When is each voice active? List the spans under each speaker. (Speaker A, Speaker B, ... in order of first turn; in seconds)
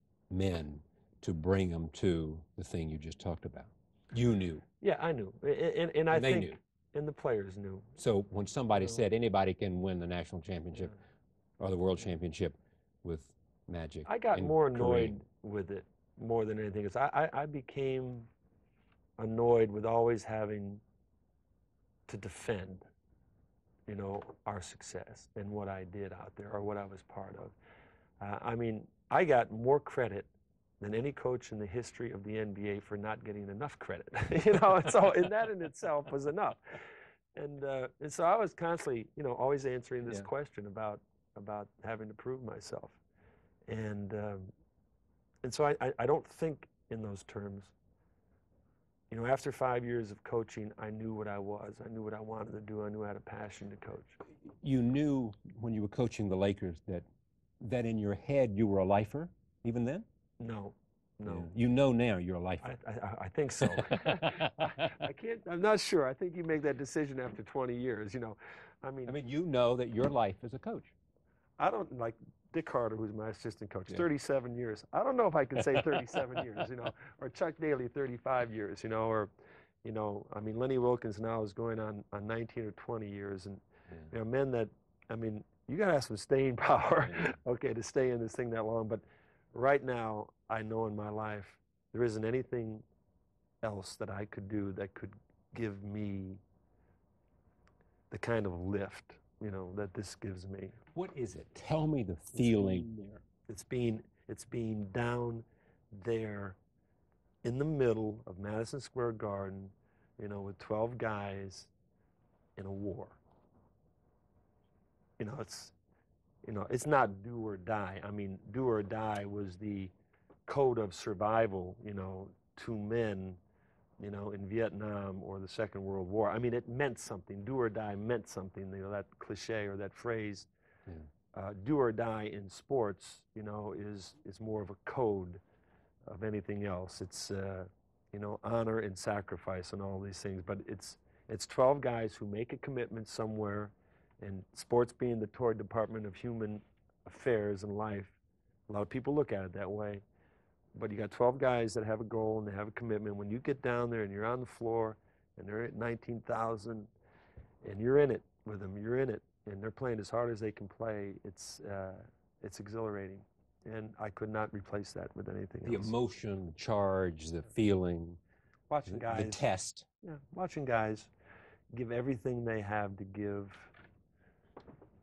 Speaker A: 0.3-4.6, 6.1-6.6, 8.0-10.9, 11.6-15.2, 54.6-57.0, 57.6-60.0, 61.2-62.7, 63.6-64.8, 69.1-70.9, 100.9-103.1, 165.6-168.2, 168.9-169.9
Speaker B: 4.8-7.9, 14.1-18.3, 19.2-20.8, 22.1-22.8, 23.9-27.5, 28.2-36.8, 37.3-43.0, 43.7-44.5, 45.4-47.7, 49.1-54.2, 60.4-61.5, 62.6-69.2, 71.6-79.3, 79.8-92.8, 93.6-96.4, 98.1-100.8, 102.9-106.6, 107.4-111.7, 112.5-113.2, 115.2-115.7, 116.4-119.9, 120.5-123.4, 124.0-130.5, 131.3-135.4, 136.1-148.2, 148.7-150.0, 150.7-156.9, 157.6-165.9, 168.7-169.4, 170.0-171.1, 171.7-173.7